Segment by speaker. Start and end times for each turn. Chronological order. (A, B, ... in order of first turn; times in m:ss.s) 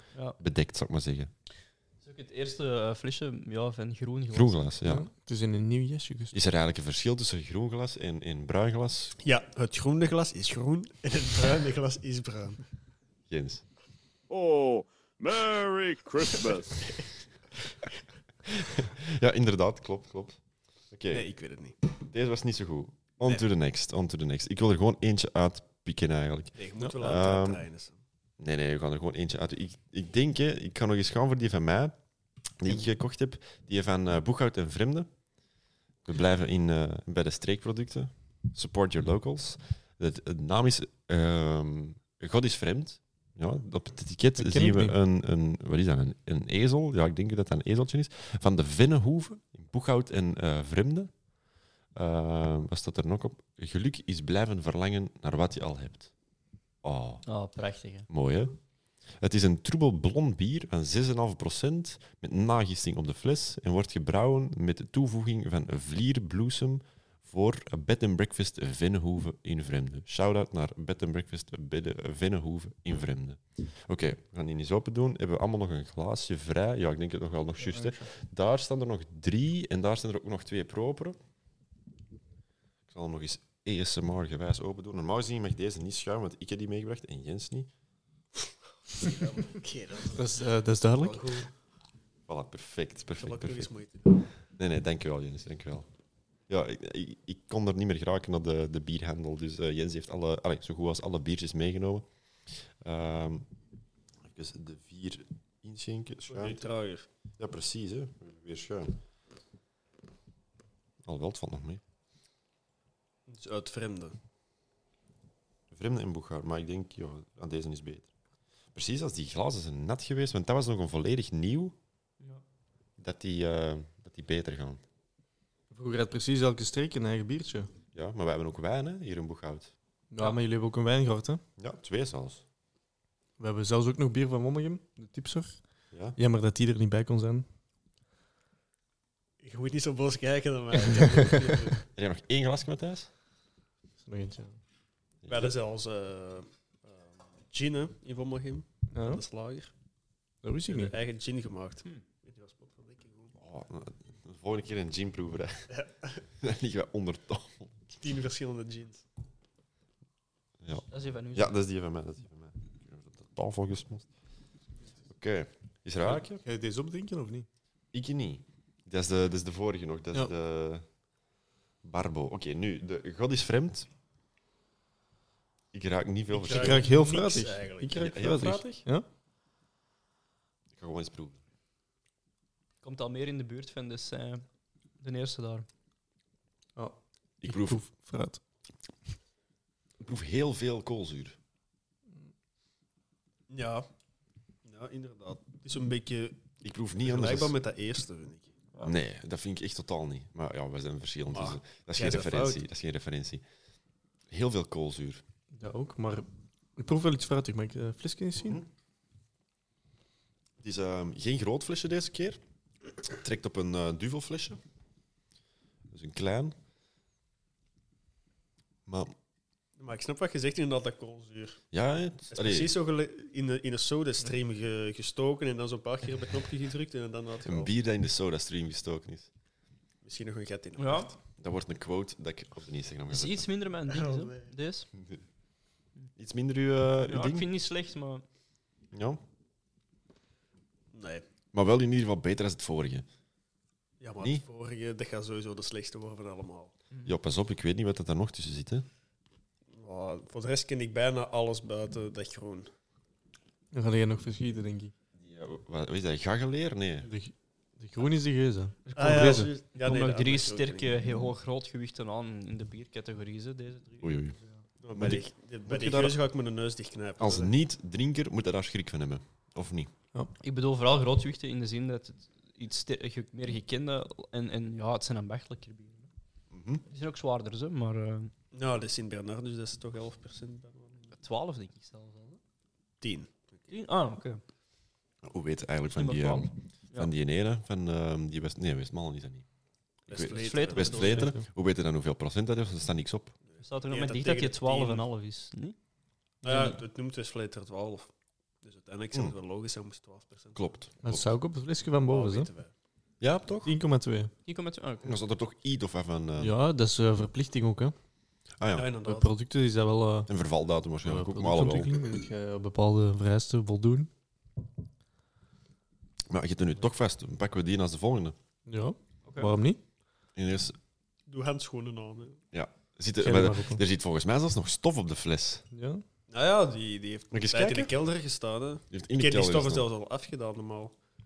0:00.4-0:01.3 A
0:02.0-0:04.6 B
0:04.3-0:05.1 A
0:04.8-0:06.3 C
0:06.3-0:09.2 A
0:09.2-0:12.6 D
0:13.3-0:13.6 A
0:14.3-0:16.8 E
0:16.8-0:17.0 D
0:18.5-0:21.3 A
0:21.1-0:21.8 D
0:21.9-0:27.6 A
0:26.6-0:28.0 D
0:28.4-0:32.0 A
0:32.6-0:35.1 A
0:36.0-0:51.1 A
0:44.4-0:45.0 C
0:51.9-0:56.1 A
0:56.8-0:57.2 A
0:57.2-0:58.1 B
0:58.1-0:58.5 A
0:59.2-1:21.2 A
1:17.7-1:18.0 C
1:22.9-1:27.7 A
1:29.0-1:30.4 D
1:30.1-1:31.5 C
1:31.0-1:31.5 D
1:32.3-1:33.7 A
1:33.2-1:34.2 D
1:34.5-1:35.9 A
1:36.5-1:43.5 A
1:44.3-1:46.6 A
1:46.3-1:47.0 D
1:47.4-1:49.0 A
1:51.0-1:51.8 A
1:53.3-1:54.2 D
1:55.7-1:58.1 A
1:58.7-2:01.7 A
2:03.0-2:04.8 A
2:05.7-2:07.7 C
2:07.9-2:09.7 A
2:10.1-2:11.4 C
2:11.6-2:12.4 A
2:13.4-2:15.5 C
2:15.9-2:16.2 A
2:16.2-2:17.4 C
2:19.4-2:21.8 D
2:21.9-2:23.1 A
2:24.0-2:24.6 C
2:25.2-2:25.5 A
2:25.3-2:26.5 D
2:27.5-2:29.7 D
2:28.9-2:29.2 C
2:30.4-2:30.9 C
2:30.7-2:33.3 D
2:33.4-2:35.7 A
2:35.7-2:36.2 D
2:36.4-2:38.0 A
2:38.0-2:39.0 D
2:40.6-2:44.1 A
2:40.9-2:41.5 B
2:45.1-2:46.4 A
2:46.1-2:47.5 C
2:47.9-2:50.8 A
2:51.8-2:53.9 A
2:55.7-2:56.9 A
2:56.3-2:58.1 D
2:56.5-2:59.0 C
2:57.9-2:58.8 A
3:00.7-3:01.4 A
3:02.8-3:04.4 B
3:05.0-3:05.6 B
3:06.8-3:08.4 C
3:07.4-3:07.8 A
3:10.0-3:11.4 A
3:13.5-3:13.9 D
3:14.6-3:16.4 D
3:16.6-3:17.6 A
3:17.0-3:18.5 D
3:18.8-3:23.4 A
3:21.3-3:22.6 D
3:24.3-3:25.2 A
3:25.5-3:28.6 C
3:30.6-3:32.4 A
3:33.0-3:34.6 A
3:35.9-3:36.6 A
3:38.9-3:39.1 A
3:39.8-3:41.6 D
3:41.7-3:42.7 A
3:42.3-3:47.7 D
3:47.4-3:49.3 A
3:50.0-3:51.2 D
3:50.8-3:51.1 B
3:51.4-3:53.4 A
3:53.1-3:54.9 B
3:53.9-3:54.5 D
3:56.2-3:57.5 A
3:57.0-3:58.2 B
3:58.9-3:59.2 A
4:00.9-4:01.2 D
4:01.5-4:03.0 A
4:04.0-4:06.7 D
4:07.0-4:08.9 A
4:09.7-4:12.7 D
4:13.7-4:14.9 C
4:15.2-4:17.1 A
4:17.0-4:19.5 C
4:18.9-4:21.0 D
4:19.0-4:24.6 B
4:24.0-4:24.4 A
4:24.8-4:27.5 D
4:24.9-4:26.2 A
4:27.2-4:29.9 A
4:30.4-4:36.1 B
4:36.5-4:36.8 A
4:36.8-4:38.3 B
4:38.5-4:41.0 D
4:41.1-4:42.4 B
4:43.0-4:43.6 D
4:43.7-4:44.4 B
4:45.2-4:49.4 A
4:45.9-4:47.1 B
4:50.1-4:51.3 D
4:50.1-4:53.3 A
4:50.2-4:51.3 B
4:53.5-4:55.0 D
4:53.6-4:55.8 B
4:56.4-4:56.8 B
4:56.4-4:58.1 D
4:58.6-5:00.6 D
5:00.5-5:01.3 A
5:01.0-5:02.5 C
5:02.1-5:02.7 D
5:03.2-5:03.7 A
5:03.6-5:04.3 C
5:04.4-5:05.2 B
5:05.0-5:06.6 A
5:06.4-5:07.9 C
5:08.6-5:08.9 A
5:08.7-5:09.3 D
5:09.0-5:10.3 C
5:10.3-5:11.9 A
5:11.0-5:14.1 C
5:16.3-5:18.4 A
5:18.7-5:19.8 C
5:19.2-5:19.5 B
5:20.4-5:20.8 A
5:21.3-5:22.4 D
5:22.5-5:25.6 A
5:23.2-5:23.8 C
5:25.7-5:26.0 C
5:26.3-5:30.9 D
5:27.3-5:27.9 A
5:28.9-5:29.9 A